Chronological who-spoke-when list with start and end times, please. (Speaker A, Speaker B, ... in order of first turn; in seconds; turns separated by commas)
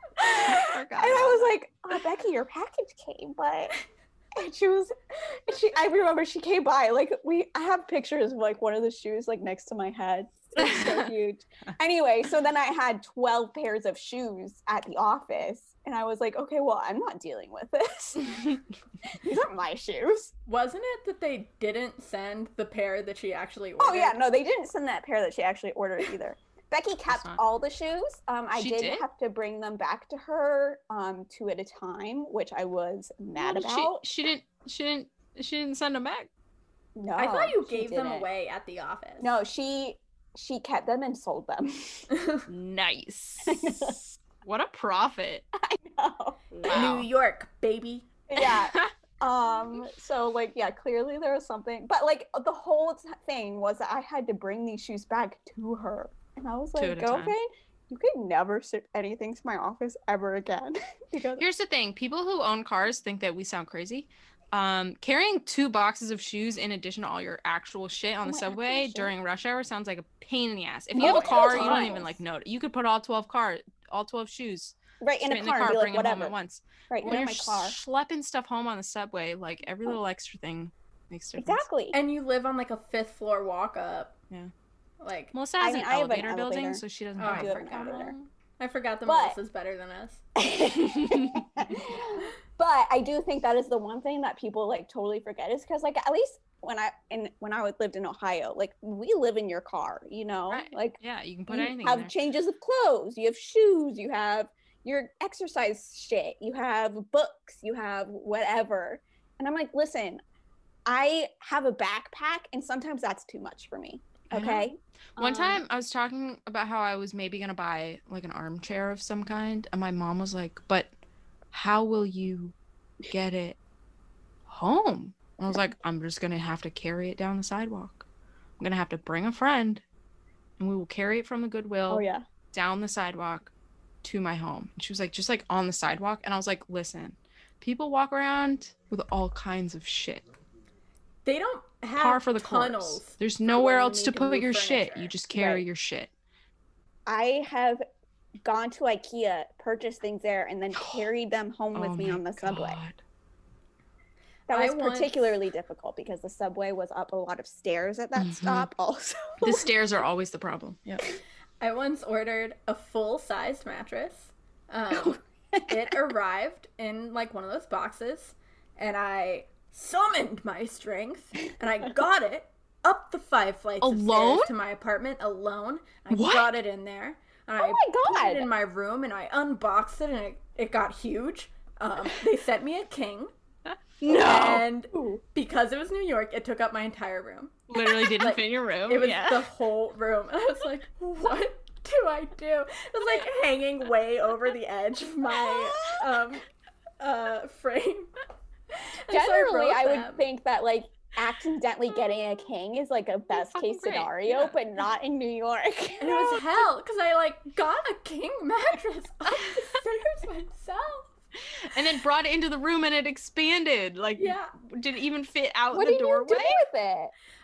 Speaker A: 0.2-3.8, Speaker B: 0.5-1.6, Speaker A: 4.4-20.3, Speaker B: 10.6-11.0, Speaker C: 20.4-24.2, Speaker A: 23.8-34.0, Speaker B: 27.1-27.4, Speaker B: 28.5-29.0, Speaker B: 33.4-36.3, Speaker A: 37.0-38.3, Speaker C: 37.2-39.3, Speaker A: 39.2-42.1, Speaker B: 42.5-45.5, Speaker A: 43.5-44.0, Speaker A: 45.6-46.9, Speaker B: 46.6-47.1, Speaker C: 46.7-48.1, Speaker A: 48.3-61.4, Speaker B: 48.4-48.9, Speaker B: 56.8-57.4, Speaker B: 61.4-81.7, Speaker A: 68.2-69.1, Speaker A: 70.9-72.2, Speaker C: 71.0-71.9, Speaker A: 75.0-76.3, Speaker A: 76.9-77.8, Speaker A: 81.4-82.0, Speaker C: 81.9-84.2, Speaker C: 85.0-85.3, Speaker B: 85.3-88.3, Speaker A: 85.6-88.2, Speaker C: 87.2-88.0, Speaker C: 88.6-90.2, Speaker A: 89.0-89.4, Speaker A: 90.4-101.0, Speaker B: 90.9-91.4, Speaker B: 100.5-102.1, Speaker A: 101.5-110.2, Speaker A: 110.8-115.6, Speaker B: 114.3-120.9, Speaker B: 121.5-122.5, Speaker B: 123.1-123.6, Speaker B: 124.5-128.1, Speaker B: 128.6-129.8, Speaker B: 130.6-133.5, Speaker A: 131.9-132.2, Speaker B: 134.0-140.3, Speaker C: 141.2-145.5, Speaker B: 142.0-146.1, Speaker A: 145.3-145.6, Speaker A: 147.1-147.8, Speaker A: 148.4-152.8, Speaker B: 150.8-151.1, Speaker B: 151.7-153.0, Speaker A: 154.5-159.6, Speaker C: 154.5-155.4, Speaker B: 158.2-158.7, Speaker B: 159.4-161.0, Speaker C: 161.6-183.3, Speaker B: 173.8-174.5, Speaker B: 176.1-176.6, Speaker A: 177.6-178.5, Speaker B: 184.0-184.6, Speaker A: 184.0-185.2, Speaker C: 184.2-196.4, Speaker B: 187.7-189.4, Speaker C: 197.0-198.1, Speaker C: 198.8-200.2, Speaker A: 199.1-206.4, Speaker B: 203.3-204.6, Speaker C: 206.0-211.2, Speaker B: 211.7-216.6, Speaker C: 214.2-214.5, Speaker A: 215.7-217.1